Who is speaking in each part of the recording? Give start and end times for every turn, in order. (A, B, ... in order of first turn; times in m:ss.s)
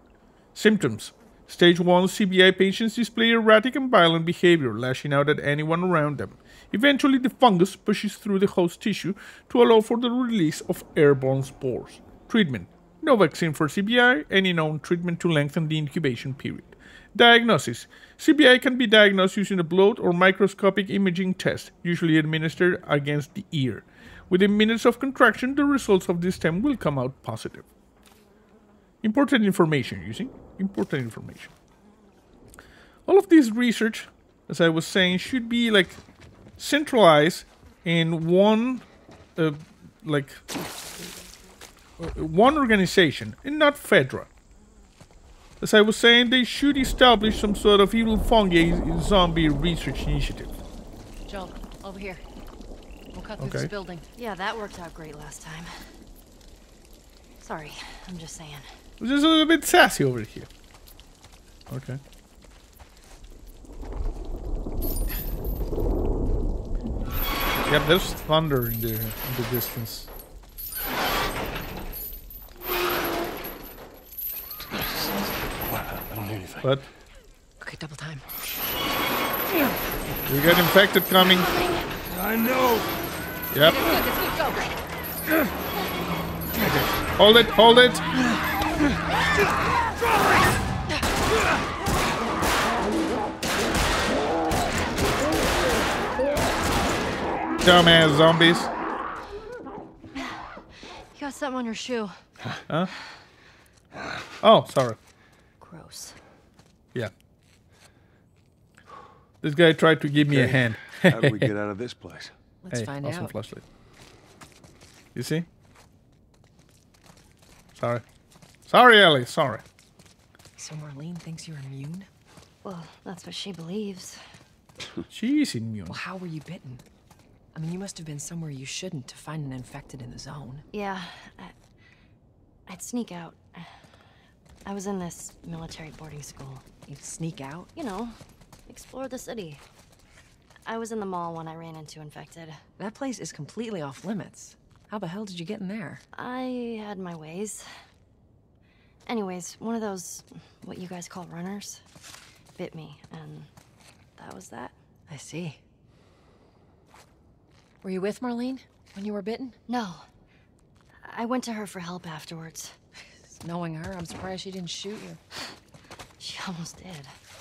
0:00.5-0:27.7 A
0:29.0-0:31.5 A
0:33.1-0:36.0 A
0:36.6-0:40.4 A
0:42.0-0:44.3 A
0:45.6-0:50.5 A
0:51.2-0:52.2 B
0:53.1-0:54.0 B
0:53.4-0:53.7 A
0:54.2-0:55.8 C
0:57.4-0:58.7 C
0:59.0-1:00.5 A
1:01.7-1:02.0 A
1:07.7-1:10.1 A
1:14.7-1:16.7 D
1:17.6-1:18.3 B
1:20.2-1:21.5 A
1:22.0-1:23.0 D
1:23.5-1:23.8 A
1:23.6-1:24.7 B
1:26.5-1:28.0 A
1:37.6-1:38.7 A
1:40.1-1:40.5 C
1:41.1-1:42.2 C
1:42.7-1:42.9 A
1:44.4-1:45.0 A
1:45.6-1:46.2 C
1:49.4-1:51.5 A
1:50.2-1:52.3 D
1:52.6-1:53.3 B
1:52.7-1:53.6 A
1:55.1-1:55.5 A
1:57.7-1:58.0 A
1:58.7-1:59.6 A
2:00.6-2:02.1 B
2:02.6-2:04.2 C
2:05.1-2:06.0 A
2:05.9-2:06.8 B
2:07.5-2:10.6 B
2:10.7-2:11.5 C
2:12.7-2:13.8 C
2:14.6-2:16.6 C
2:16.9-2:17.7 B
2:17.8-2:18.2 C
2:18.7-2:19.6 C
2:20.6-2:22.6 C
2:22.8-2:26.0 B
2:26.1-2:27.7 C
2:29.0-2:31.8 C
2:32.6-2:33.5 C
2:34.2-2:34.7 C
2:35.1-2:35.6 B
2:37.8-2:39.6 B
2:39.7-2:40.0 C
2:41.0-2:42.8 C
2:43.2-2:45.2 B
2:46.2-2:47.1 C